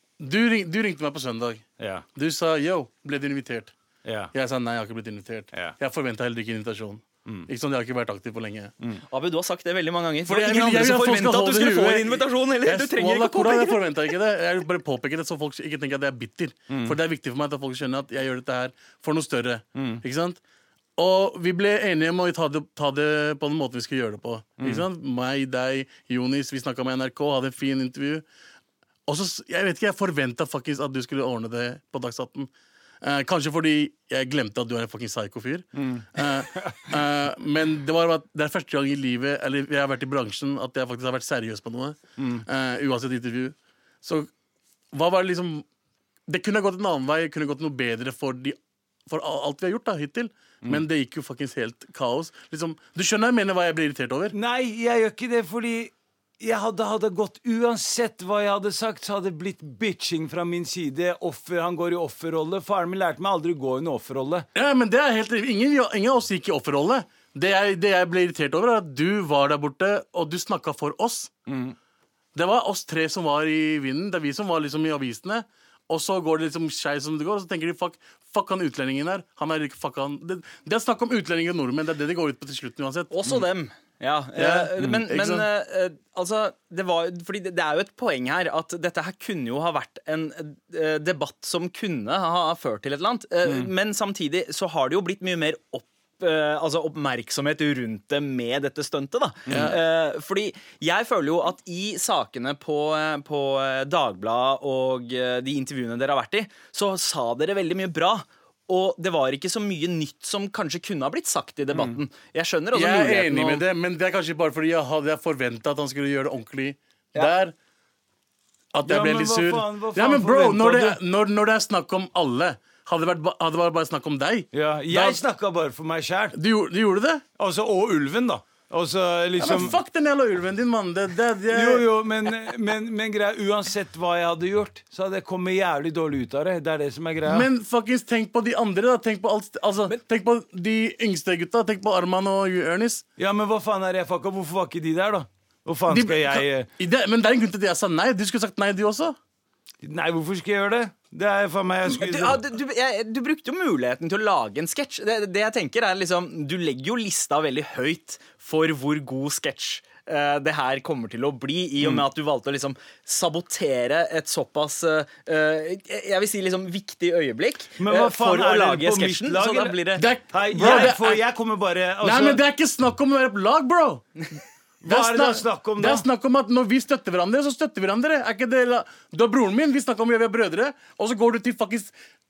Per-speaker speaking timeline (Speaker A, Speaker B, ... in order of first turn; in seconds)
Speaker A: 0.2-1.6, 2.2-3.7, 4.3-8.7, 10.3-20.4, 21.0-28.2, 29.1-32.5, 33.0-44.3, 44.9-45.6, 46.3-48.6, 49.1-54.4, 64.5-71.3, 72.3-83.1, 84.4-85.5, 99.5-99.8, 112.7-117.5, 118.7-125.2, 126.3-127.2, 129.4-131.9, 137.3-143.0, 145.9-149.2, 170.0-171.2, 172.0-174.1, 174.8-181.9
Speaker B: 1.8-2.0, 4.0-4.3, 16.7-17.0, 19.8-20.0, 24.6-24.9, 35.8-36.9, 42.2-42.5, 54.3-64.5, 71.5-71.8, 93.5-93.7, 99.5-99.8, 118.8-121.0, 124.5-126.4, 127.4-129.8, 131.5-137.5, 143.2-146.7, 149.8-152.4, 161.8-162.1, 167.8-172.4, 174.8-176.1
Speaker C: 9.1-13.8, 83.1-113.6, 151.9-170.1, 170.6-170.9